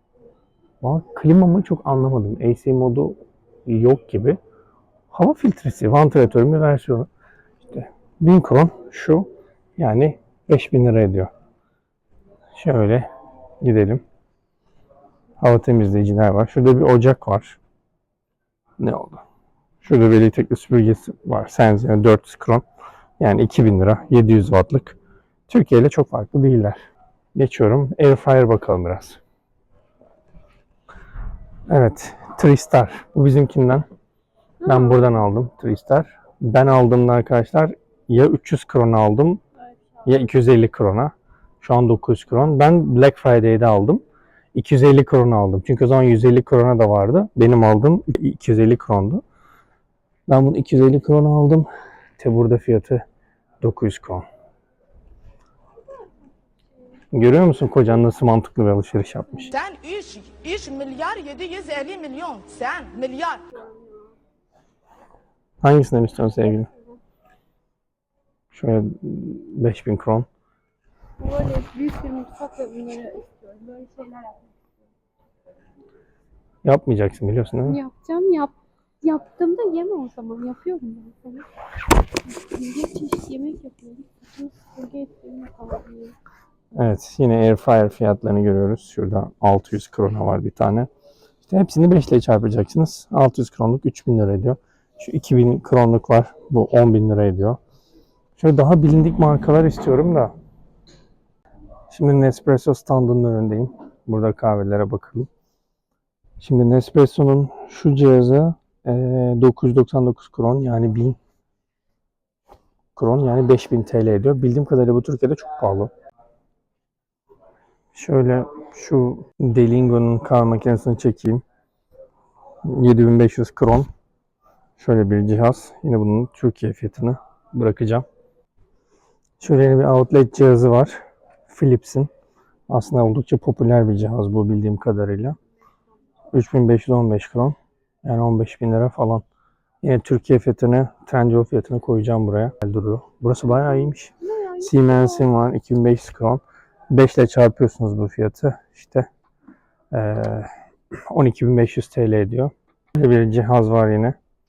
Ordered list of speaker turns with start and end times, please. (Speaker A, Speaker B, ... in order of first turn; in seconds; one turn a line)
Speaker A: 0.8-4.4
Speaker A: 5.1-7.1
Speaker A: 7.7-11.3
Speaker A: 12.6-13.1
Speaker A: 13.6-14.0
Speaker A: 15.4-17.6
Speaker A: 18.8-19.2
Speaker A: 19.8-22.6
Speaker A: 23.2-25.0
Speaker A: 25.5-29.2
Speaker A: 31.7-33.9
Speaker B: 34.6-35.2
Speaker A: 34.6-39.4
Speaker A: 40.1-44.0
Speaker A: 44.5-49.2
Speaker A: 50.3-51.7
Speaker A: 52.2-53.0
Speaker A: 53.6-54.2
Speaker A: 57.1-59.6
Speaker C: 59.6-63.4
Speaker A: 65.6-66.7
Speaker A: 68.5-70.3
Speaker B: 71.2-74.7
Speaker A: 76.7-77.8
Speaker B: 77.7-81.5
Speaker B: 82.2-86.2
Speaker A: 86.7-90.9
Speaker A: 91.5-97.6
Speaker A: 98.4-100.3
Speaker A: 101.9-105.3
Speaker A: 106.4-111.2
Speaker A: 113.0-115.9
Speaker A: 117.9-121.4
Speaker A: 122.7-123.9
Speaker A: 124.8-128.1
Speaker A: 129.4-132.1
Speaker A: 132.7-135.4
Speaker A: 136.3-139.2
Speaker A: 139.8-149.1
Speaker B: 144.2-145.3
Speaker A: 149.9-150.5
Speaker A: 151.1-154.2